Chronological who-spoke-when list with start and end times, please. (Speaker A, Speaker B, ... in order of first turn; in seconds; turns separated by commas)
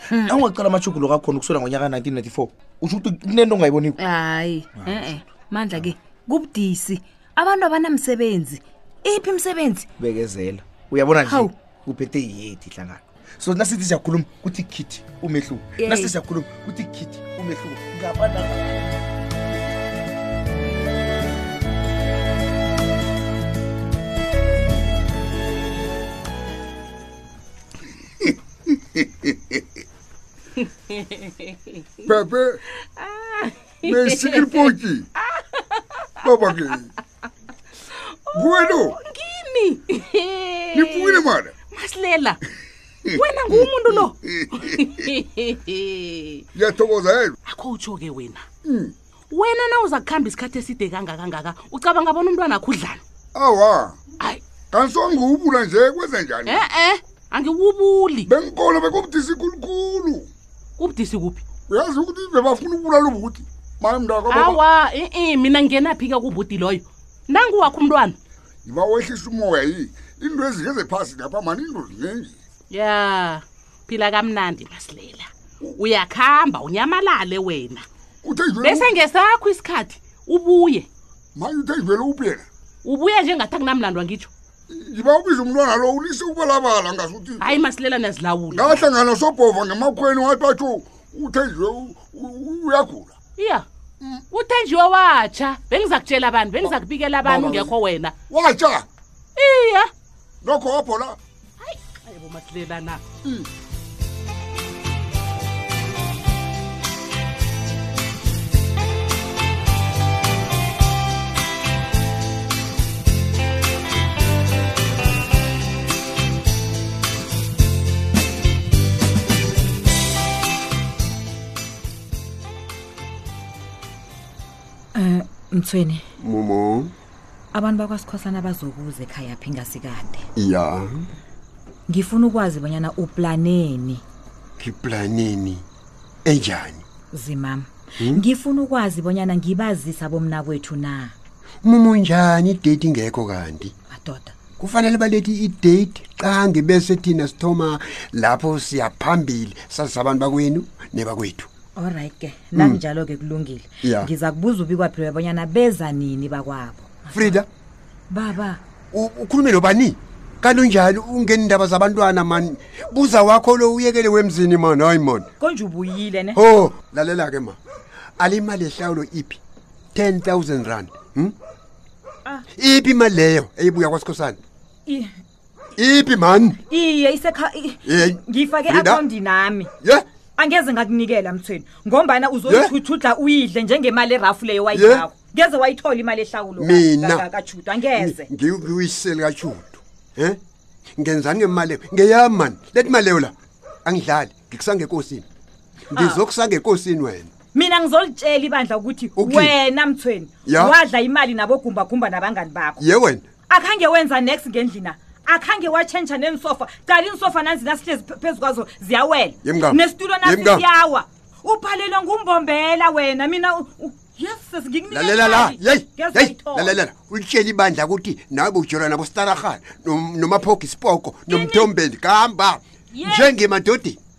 Speaker A: 0.1-0.4, Speaker B: 0.2-4.0, Speaker A: 4.0-9.8, Speaker B: 10.0-18.9, Speaker A: 15.8-16.1, Speaker C: 31.0-31.3, Speaker D: 32.1-32.6, Speaker C: 33.0-34.6, Speaker D: 33.8-35.0, Speaker C: 35.5-35.8, Speaker D: 36.2-36.9, Speaker D: 38.3-39.0, Speaker C: 38.3-42.4, Speaker D: 40.7-41.5, Speaker C: 43.1-46.4, Speaker D: 43.5-45.0, Speaker D: 46.5-47.4, Speaker C: 47.5-48.4, Speaker D: 48.6-48.9, Speaker C: 49.3-53.0, Speaker D: 53.3-54.0, Speaker D: 54.7-56.7, Speaker C: 56.5-58.3, Speaker D: 58.2-60.3, Speaker C: 60.8-61.4, Speaker D: 61.7-64.6, Speaker C: 64.3-68.2, Speaker D: 68.7-72.3, Speaker C: 72.7-77.8, Speaker D: 78.2-78.9, Speaker C: 78.6-80.9, Speaker D: 81.3-82.5, Speaker C: 82.8-84.3, Speaker D: 84.7-87.6, Speaker C: 87.4-88.9, Speaker D: 88.5-93.1, Speaker C: 93.4-93.6, Speaker C: 94.3-98.1, Speaker D: 96.6-97.7, Speaker D: 98.3-98.8, Speaker C: 99.4-99.9, Speaker D: 100.4-101.2, Speaker C: 101.6-103.0, Speaker E: 124.9-126.0, Speaker F: 126.2-126.9, Speaker E: 127.5-130.3, Speaker F: 130.3-131.1, Speaker E: 131.9-134.0, Speaker F: 134.6-135.6, Speaker F: 136.2-136.8, Speaker E: 137.1-141.1, Speaker F: 138.0-138.2, Speaker F: 141.6-143.7, Speaker E: 143.9-144.3, Speaker F: 144.6-151.5, Speaker E: 151.8-157.4, Speaker F: 152.5-152.8, Speaker F: 153.8-154.1, Speaker F: 157.1-157.5, Speaker E: 158.1-158.6, Speaker F: 158.9-165.3, Speaker E: 165.4-166.4, Speaker F: 166.3-167.6, Speaker F: 168.2-169.4, Speaker F: 169.9-171.3, Speaker F: 172.5-174.4, Speaker F: 175.8-176.6, Speaker E: 176.7-179.7, Speaker F: 177.8-179.0, Speaker E: 180.4-188.2, Speaker F: 182.5-182.8, Speaker F: 184.7-185.1, Speaker F: 186.6-187.3, Speaker F: 187.9-190.4, Speaker F: 191.0-193.3, Speaker F: 193.8-195.2, Speaker F: 195.9-197.3, Speaker E: 195.9-196.2, Speaker E: 197.5-202.8, Speaker F: 199.2-199.6, Speaker F: 200.4-200.8, Speaker F: 202.8-203.2, Speaker E: 203.5-216.8, Speaker F: 209.4-210.7, Speaker F: 214.9-224.0, Speaker E: 221.3-221.7, Speaker E: 222.9-223.3